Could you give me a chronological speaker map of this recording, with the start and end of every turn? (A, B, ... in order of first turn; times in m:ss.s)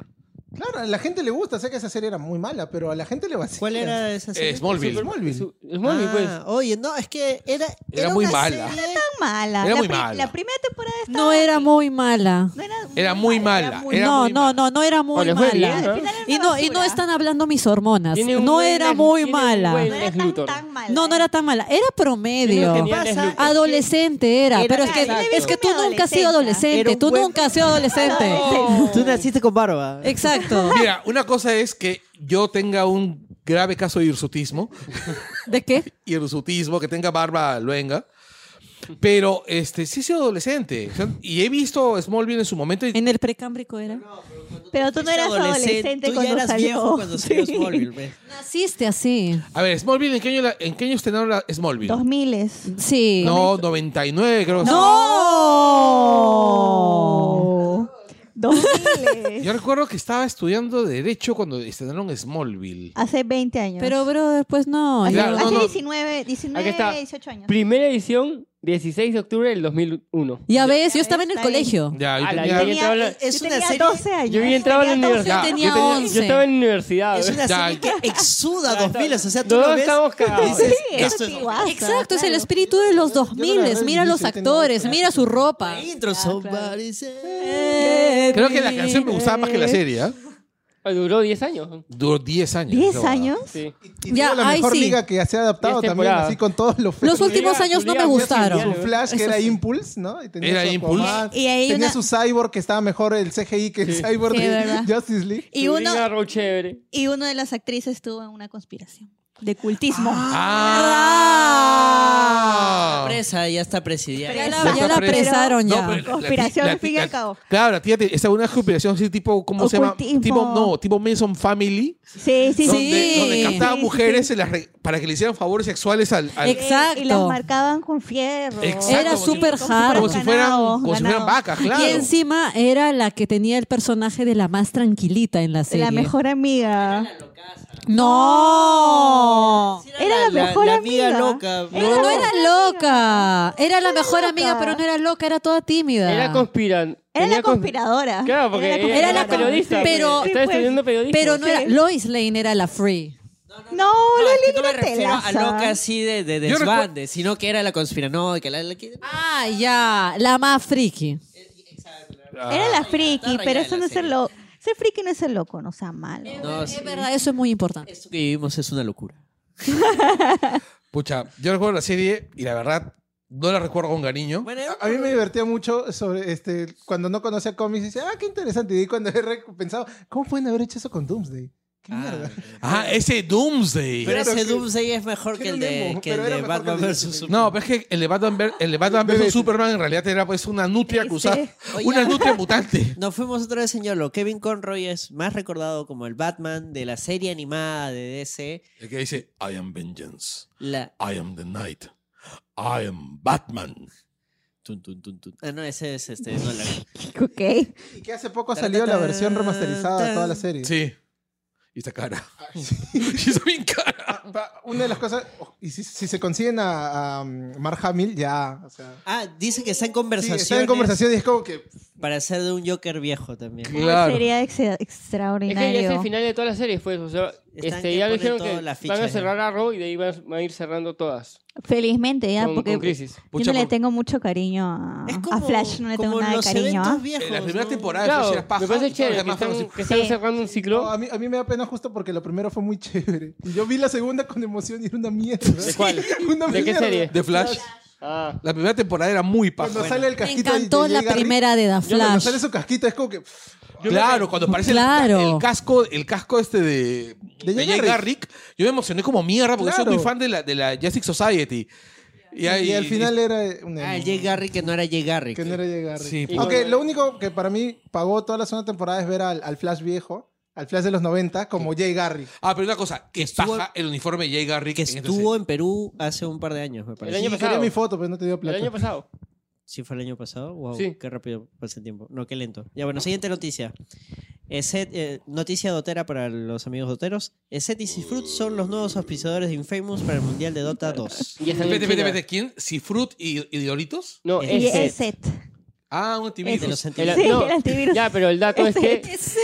0:00.5-0:04.0 A
0:03.6-0:05.0 B
0:04.3-0:05.0 C
0:04.7-0:06.4 D
0:04.8-0:05.5 A
0:05.8-0:09.0 B
0:07.9-0:08.8 C
0:08.0-0:11.7 E
0:09.6-0:10.3 C
0:11.1-0:12.5 F
0:12.5-0:14.1 E
0:12.9-0:14.6 C
0:13.9-0:19.9 F
0:15.1-0:16.1 D
0:15.5-0:17.0 E
0:18.1-0:20.6 D
0:19.9-0:21.3 E
0:20.9-0:28.5 F
0:22.4-0:23.7 D
0:22.8-0:23.9 E
0:24.5-0:26.7 E
0:26.7-0:30.3 B
0:27.4-0:29.1 E
0:28.2-0:29.3 D
0:28.4-0:28.8 C
0:30.0-0:30.8 F
0:30.3-0:30.8 E
0:30.7-0:35.2 C
0:35.5-0:35.9 F
0:35.9-0:38.0 C
0:39.0-0:43.0 C
0:42.9-0:44.0 F
0:43.9-0:48.2 B
0:44.7-0:47.8 E
0:48.2-0:49.4 F
0:49.5-0:52.0 C
0:51.8-0:53.6 E
0:52.7-0:53.4 F
0:53.2-0:55.0 C
0:54.6-0:59.5 E
0:54.6-0:57.5 F
0:58.5-0:59.2 F
0:59.4-1:02.9 C
1:03.0-1:04.0 E
1:03.8-1:05.7 F
1:05.0-1:07.5 E
1:05.1-1:05.7 C
1:06.5-1:10.6 D
1:10.5-1:12.0 F
1:10.7-1:11.8 E
1:11.9-1:12.7 C
1:12.2-1:13.2 D
1:12.4-1:15.9 E
1:12.7-1:14.1 B
1:14.3-1:17.4 D
1:15.0-1:16.4 F
1:15.2-1:16.2 C
1:17.1-1:21.6 B
1:17.4-1:17.9 C
1:17.9-1:18.2 E
1:18.6-1:20.8 D
1:20.4-1:22.5 E
1:20.9-1:21.2 C
1:21.6-1:25.8 F
1:22.9-1:25.4 A
1:25.6-1:28.1 B
1:26.1-1:26.8 E
1:27.4-1:29.1 F
1:27.8-1:29.0 E
1:28.3-1:30.2 C
1:30.8-1:31.8 D
1:31.9-1:33.3 C
1:32.7-1:33.6 E
1:33.8-1:45.5 A
1:34.1-1:35.0 F
1:35.6-1:36.4 D
1:37.0-1:39.4 F
1:37.2-1:39.0 D
1:40.4-1:41.3 C
1:40.9-1:42.0 E
1:44.2-1:44.9 E
1:45.5-1:46.1 E
1:45.6-1:46.8 D
1:46.9-1:50.6 E
1:50.2-1:53.2 C
1:50.3-1:50.8 B
1:50.6-1:52.1 F
1:52.7-1:54.8 B
1:54.2-1:57.4 E
1:54.3-1:56.0 F
1:54.6-2:02.0 C
1:59.6-2:00.7 E
2:02.2-2:04.3 E
2:02.6-2:06.6 C
2:02.6-2:03.7 F
2:06.4-2:12.0 E
2:06.4-2:07.4 F
2:08.6-2:12.1 C
2:08.8-2:10.2 F
2:11.6-2:16.1 F
2:15.7-2:17.1 E
2:16.6-2:17.8 B
2:17.8-2:19.8 F
2:17.9-2:24.8 E
2:19.8-2:22.2 B
2:21.7-2:26.5 F
2:26.0-2:31.4 D
2:27.1-2:31.8 E
2:28.9-2:30.3 F
2:31.1-2:33.2 F
2:33.5-2:39.0 B
2:33.7-2:35.8 E
2:36.4-2:36.9 C
2:39.0-2:41.2 F
2:41.4-2:44.1 B
2:42.3-2:42.9 C
2:42.5-2:46.8 E
2:46.2-2:47.9 F
2:46.4-2:47.1 B
2:47.8-2:49.2 B
2:49.8-2:50.6 E
2:50.9-2:54.5 C
2:54.4-2:55.2 B
2:54.6-3:02.9 A
3:01.9-3:02.9 B
3:02.6-3:04.2 C
3:04.0-3:04.7 A
3:04.0-3:07.5 B
3:05.3-3:07.5 A
3:07.3-3:13.0 C
3:08.8-3:09.6 A
3:10.9-3:11.6 E
3:11.7-3:12.4 B
3:13.0-3:18.6 B
3:18.8-3:20.5 C
3:20.6-3:20.9 B
3:21.0-3:21.9 C
3:22.6-3:23.9 C
3:24.6-3:26.8 B
3:26.7-3:27.7 E
3:27.9-3:30.7 A
3:28.5-3:30.4 B
3:30.6-3:30.9 C
3:31.7-3:32.3 C
3:32.4-3:33.4 A
3:33.0-3:34.2 C
3:34.1-3:39.0 A
3:39.0-3:41.0 B
3:40.2-3:41.7 A
3:42.0-3:43.8 B
3:43.6-3:44.3 C
3:43.7-3:46.1 E
3:45.5-3:51.4 D
3:47.5-3:49.3 B
3:51.6-3:57.0 E
3:52.4-3:53.2 D
3:53.3-3:53.7 C
3:55.1-3:58.1 B
3:57.2-3:59.8 C
3:58.0-4:00.9 D
3:59.8-4:00.2 E
4:00.4-4:07.2 A
4:05.6-4:07.1 D
4:07.1-4:07.6 C
4:08.0-4:08.4 D
4:08.4-4:09.9 C
4:09.6-4:13.3 A
4:09.7-4:10.1 B
4:10.2-4:12.4 F
4:11.9-4:12.2 D
4:13.8-4:14.4 A
4:13.8-4:21.7 C
4:14.5-4:15.4 F
4:17.4-4:18.0 A
4:19.6-4:20.1 A
4:22.3-4:23.1 C
4:22.4-4:24.4 A
4:23.8-4:25.6 B
4:25.3-4:32.3 A
4:26.0-4:26.6 C
4:26.3-4:26.8 D
4:32.4-4:35.3 C
4:33.2-4:33.7 B
4:34.7-4:37.4 B
4:37.0-4:37.7 D
4:37.1-4:38.9 A
4:38.4-4:39.1 D
4:39.7-4:43.7 B
4:44.5-4:51.5 B
4:51.4-4:52.2 D
4:51.5-4:54.2 C
4:54.2-4:54.9 D
4:54.4-4:55.0 B
4:54.5-4:55.4 E
4:55.9-4:57.0 C
4:56.4-4:59.1 E
4:56.5-4:57.5 B
4:57.0-4:59.1 D